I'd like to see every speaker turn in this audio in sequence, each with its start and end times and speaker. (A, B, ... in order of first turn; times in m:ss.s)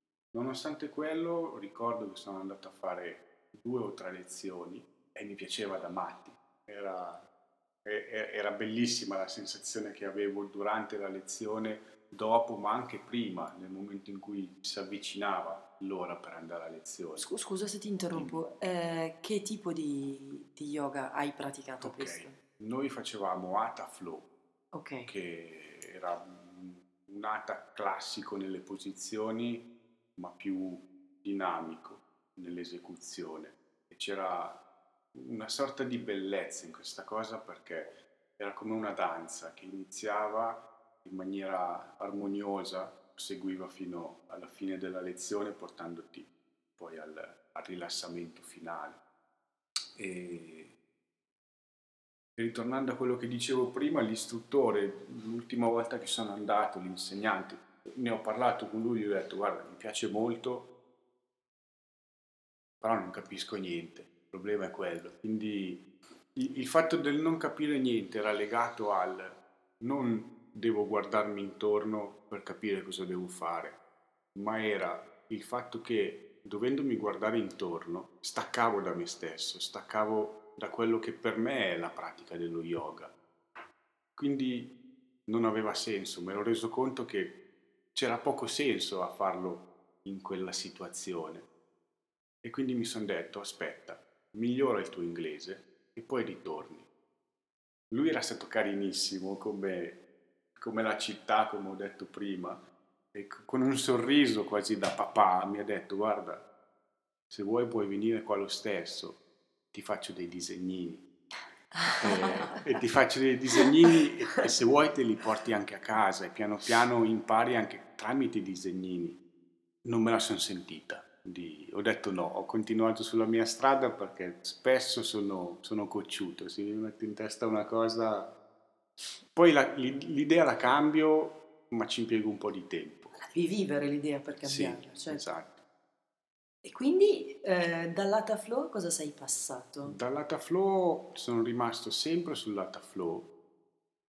0:00.3-0:07.2 A
0:07.8-0:17.3 A
0:17.2-0:22.4 B
0:18.1-0:18.4 A
0:21.8-0:24.3 A
0:24.7-0:25.1 B
0:25.0-0:34.6 A
0:35.1-0:49.0 A
0:50.0-0:50.7 A
0:52.4-1:00.7 A
1:02.8-1:13.8 A
1:14.3-1:23.2 A
1:24.2-1:24.7 A
1:25.3-1:27.4 A
1:27.9-1:31.5 A
1:32.4-1:36.9 A
1:37.9-1:40.0 A
1:40.6-1:42.6 A
1:43.1-1:46.4 A
1:47.3-1:49.2 A
1:49.7-1:51.0 A
1:51.8-1:52.6 B
1:51.9-1:59.2 A
1:53.6-1:54.4 B
1:59.8-2:08.3 A
2:09.3-2:13.1 A
2:13.2-2:15.2 B
2:14.4-2:15.6 A
2:16.6-2:20.0 B
2:19.8-2:23.3 A